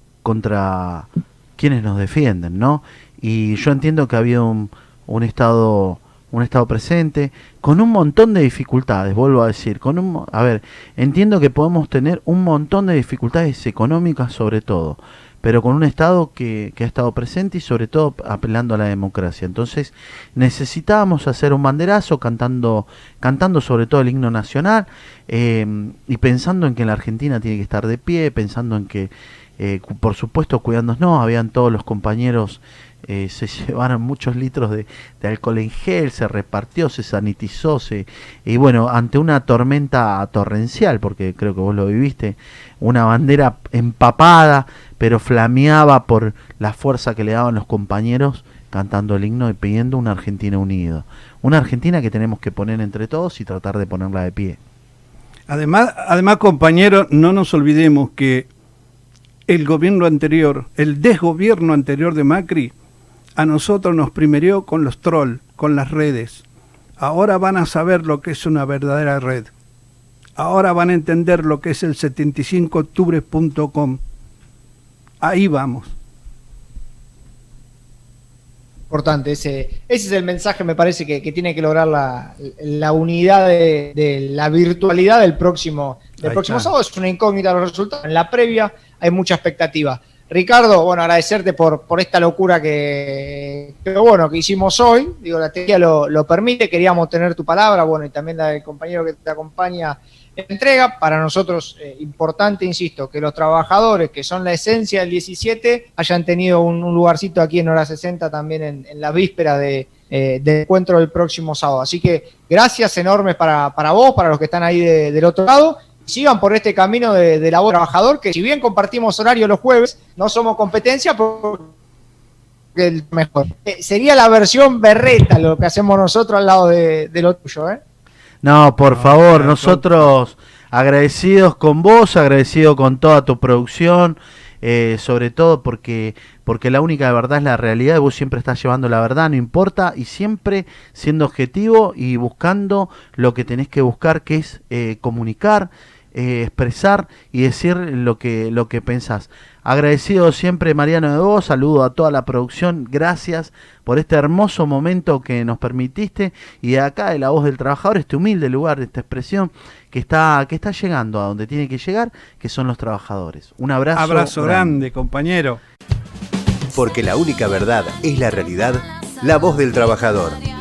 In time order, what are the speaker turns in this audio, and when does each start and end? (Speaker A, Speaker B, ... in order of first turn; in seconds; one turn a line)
Speaker A: 0.2-54.6
Speaker B: 55.5-58.5
Speaker B: 59.5-62.7
Speaker B: 63.4-66.4
Speaker B: 67.0-69.5
Speaker B: 70.4-74.0
Speaker B: 75.2-75.9
Speaker C: 78.9-121.7
Speaker B: 86.2-86.7
Speaker C: 122.7-127.8
Speaker A: 128.4-164.8
Speaker B: 128.8-130.1
Speaker B: 163.9-165.6
Speaker D: 166.7-170.4